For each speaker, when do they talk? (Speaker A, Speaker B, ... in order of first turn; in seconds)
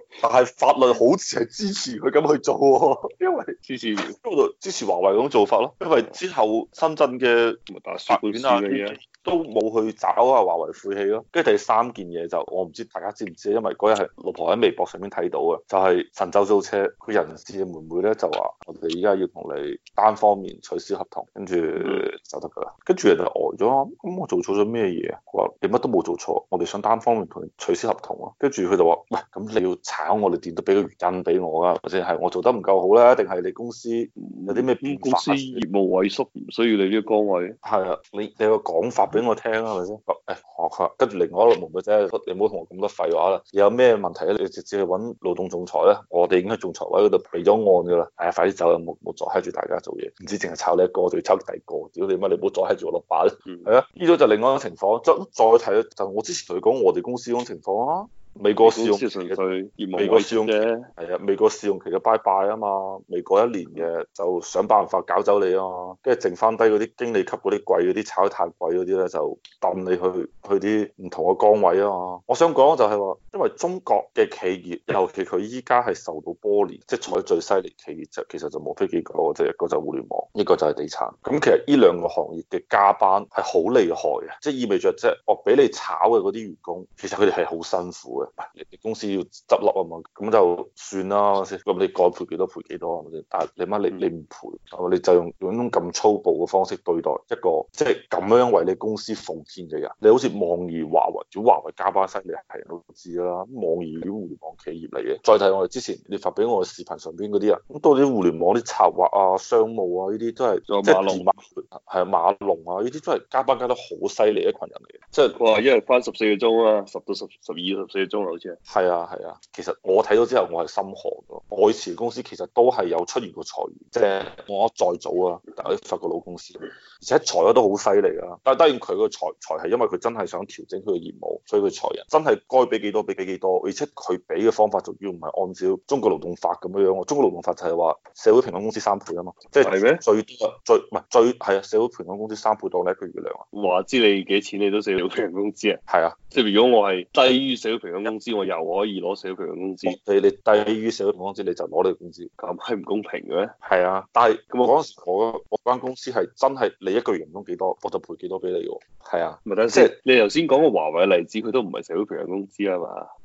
Speaker A: 0.2-35.6, 37.6-59.4, 59.9-115.4, 118.7-143.4, 145.9-146.2, 149.8-152.3, 153.6-159.9
Speaker B: 3.6-4.2, 7.7-9.0, 34.2-37.6, 58.6-60.9, 110.7-111.3, 115.3-118.6, 139.6-140.0, 143.5-145.8, 146.3-150.0, 152.4-153.5, 159.4-163.1